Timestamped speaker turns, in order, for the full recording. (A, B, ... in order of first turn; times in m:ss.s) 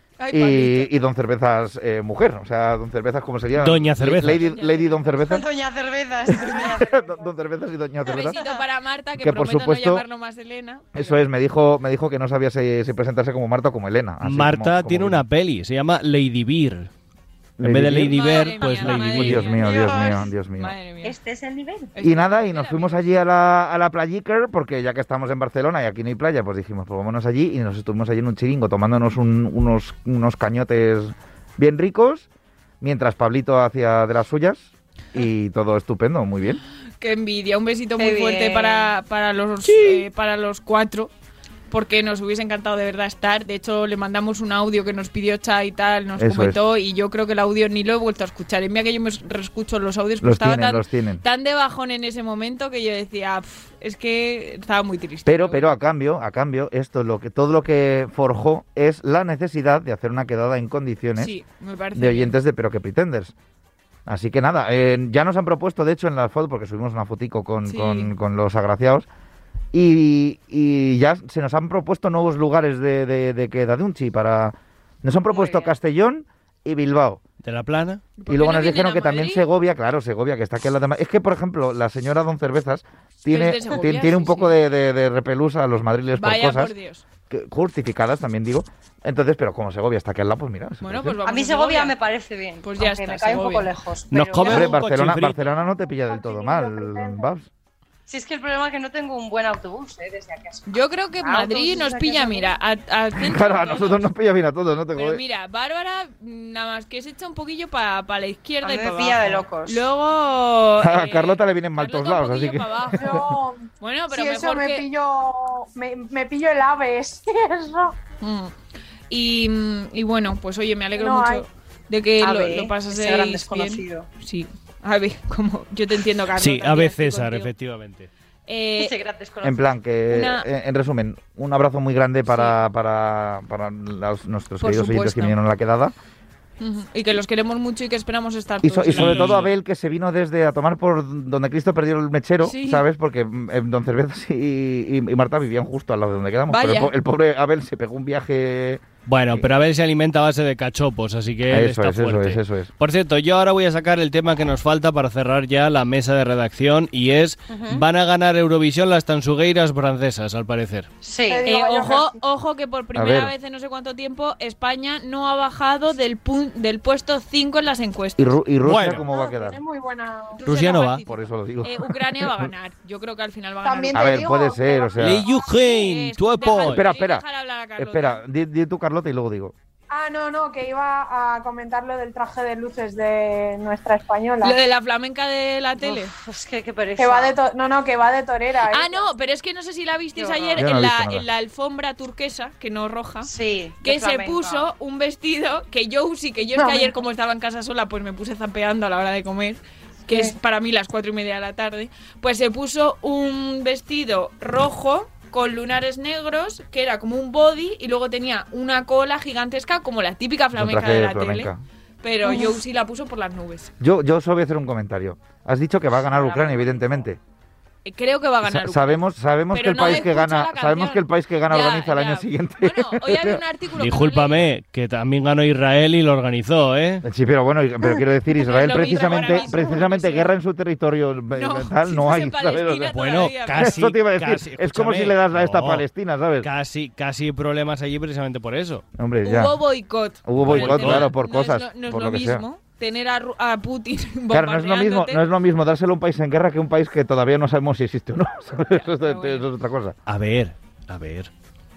0:00.2-0:00.9 A
0:00.3-0:05.5 B
0:03.6-0:04.4 C
0:04.2-0:05.0 A
0:05.2-0:07.3 D
0:06.3-0:08.4 B
0:08.1-0:11.2 A
0:08.1-0:08.6 D
0:09.2-0:10.0 B
0:10.9-0:15.2 B
0:14.2-0:16.9 C
0:17.6-0:20.8 B
0:17.6-0:19.5 C
0:18.1-0:21.2 A
0:19.5-0:20.3 D
0:21.0-0:21.9 D
0:22.0-0:23.1 A
0:22.0-0:32.3 B
0:32.8-0:36.6 B
0:37.0-0:41.1 A
0:38.0-0:38.9 D
0:41.7-0:55.7 A
0:46.2-0:46.6 B
0:50.2-0:51.2 B
0:55.3-1:01.4 B
1:01.2-1:02.4 A
1:02.0-1:03.3 B
1:04.1-1:09.1 B
1:07.7-1:08.1 A
1:09.7-1:17.2 B
1:15.3-1:15.7 D
1:17.4-1:18.0 C
1:18.2-1:19.4 A
1:18.3-1:26.7 B
1:23.3-1:24.6 A
1:26.2-1:27.0 A
1:27.3-1:31.2 B
1:30.8-1:32.0 A
1:31.2-1:34.7 D
1:32.6-1:33.7 A
1:34.1-1:35.5 C
1:34.4-1:37.5 B
1:35.5-1:37.3 E
1:38.1-1:42.5 D
1:40.7-1:44.1 A
1:43.2-1:45.2 B
1:45.0-1:54.9 A
1:48.6-1:49.9 D
1:50.8-1:53.3 B
1:53.0-1:58.0 E
1:58.2-1:58.5 A
1:59.1-2:07.5 A
2:01.0-2:01.5 E
2:02.2-2:04.1 D
2:06.4-2:08.1 C
2:08.5-2:09.0 A
2:08.8-2:09.7 D
2:09.4-2:15.9 B
2:10.1-2:10.5 A
2:12.3-2:12.6 A
2:14.6-2:15.4 A
2:16.6-2:19.4 A
2:18.6-2:29.5 B
2:19.0-2:19.5 C
2:22.4-2:22.8 A
2:26.5-2:26.9 A
2:29.1-2:40.9 C
2:31.5-2:32.7 B
2:37.5-2:37.8 D
2:41.0-2:41.5 D
2:41.3-2:42.2 E
2:41.4-2:48.4 A
2:43.0-2:43.3 B
2:48.2-2:49.6 B
2:48.6-2:49.0 C
2:48.9-2:50.4 E
2:50.4-2:54.5 A
2:50.5-2:51.0 C
2:51.0-2:52.5 B
2:53.6-2:55.1 E
2:53.9-2:55.2 B
2:55.0-2:56.9 C
2:55.4-2:58.2 A
2:56.6-2:57.2 B
2:57.8-2:59.5 B
2:59.9-3:04.6 E
3:04.4-3:06.1 A
3:05.8-3:07.4 D
3:07.0-3:09.1 E
3:08.7-3:13.3 A
3:10.2-3:10.6 D
3:10.6-3:11.2 B
3:13.2-3:14.7 D
3:13.8-3:31.5 A
3:16.5-3:17.0 E
3:30.6-3:31.6 B
3:32.0-3:33.7 A
3:33.8-3:37.2 B
3:36.0-3:37.1 D
3:37.8-3:44.5 A
3:38.4-3:43.4 B
3:43.8-3:47.0 C
3:47.0-3:53.0 B
3:48.4-3:50.3 A
3:51.3-3:53.8 A
3:52.9-3:55.9 C
3:53.5-3:56.5 B
3:56.4-3:58.8 C
3:59.0-3:59.6 B
3:59.2-4:05.2 A
4:00.2-4:02.4 B
4:00.4-4:01.1 C
4:04.3-4:10.0 B
4:08.7-4:09.5 A
4:10.1-4:11.3 C